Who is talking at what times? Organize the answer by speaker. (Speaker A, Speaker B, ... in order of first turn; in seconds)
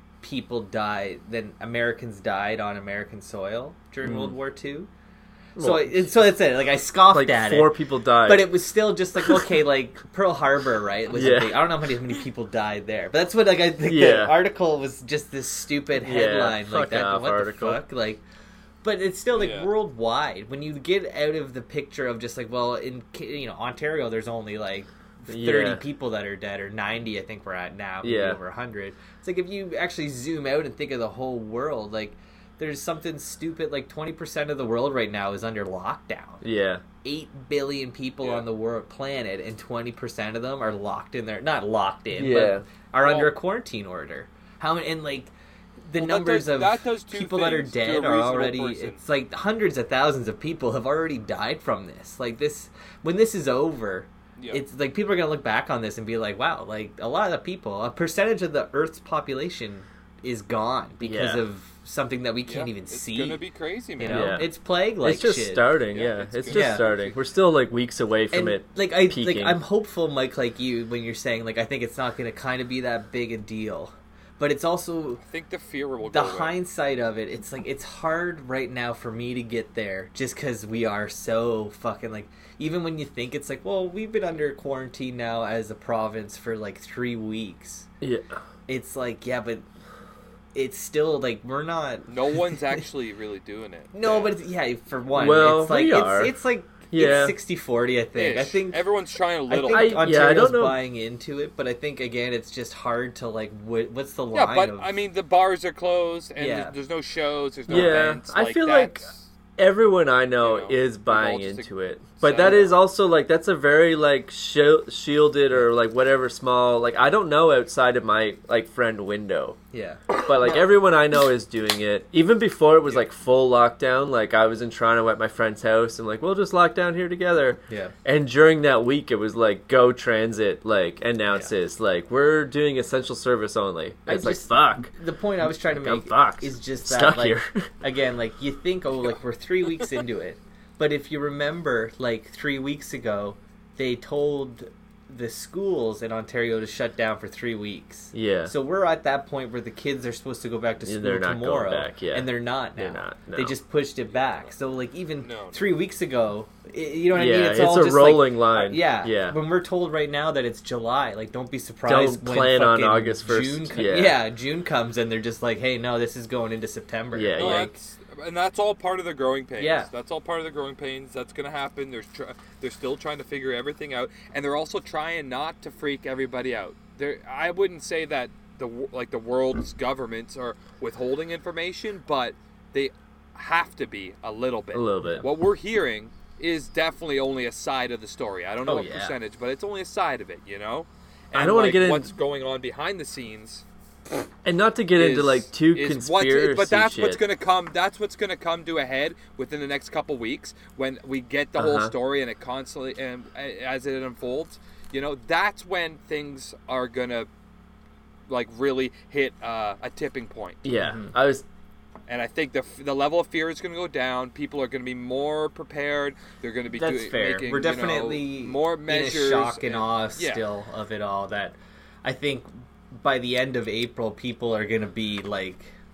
Speaker A: 0.2-4.9, 5.6-18.2, 18.8-36.4, 37.0-45.3, 45.9-63.4, 64.0-65.7, 66.5-66.9, 68.3-75.2, 76.1-87.9, 88.7-89.7, 90.5-92.6, 93.9-98.8, 99.5-105.0, 106.4-106.7, 107.7-108.0, 112.3-112.7, 119.7-120.6, 127.7-127.9, 134.1-167.8, 169.6-169.9, 188.7-189.2, 210.8-211.1, 216.7-225.8
Speaker B: 4.0-4.3, 5.6-6.1, 7.1-8.5, 11.1-11.6, 13.9-14.4, 16.0-17.8, 25.3-25.8, 28.0-28.4, 36.4-36.8, 42.1-42.7, 61.0-61.4, 64.1-69.6, 88.0-88.4, 95.2-96.3, 96.9-97.4, 99.7-100.8, 107.7-119.6, 120.2-134.9, 135.7-137.7, 148.1-148.5, 150.9-153.6, 157.1-159.4, 161.9-164.2, 167.1-167.7, 184.7-185.3, 191.3-192.1, 194.4-197.2, 201.6-201.9, 210.6-211.4
Speaker C: 19.3-19.7, 43.0-43.3, 46.0-49.0, 62.5-64.4, 65.9-67.2, 75.2-76.5, 92.1-94.3, 97.0-97.3, 98.2-100.0, 104.3-109.2, 110.4-112.7, 155.2-155.7, 167.4-193.6, 195.0-207.3, 208.3-210.6, 212.1-220.4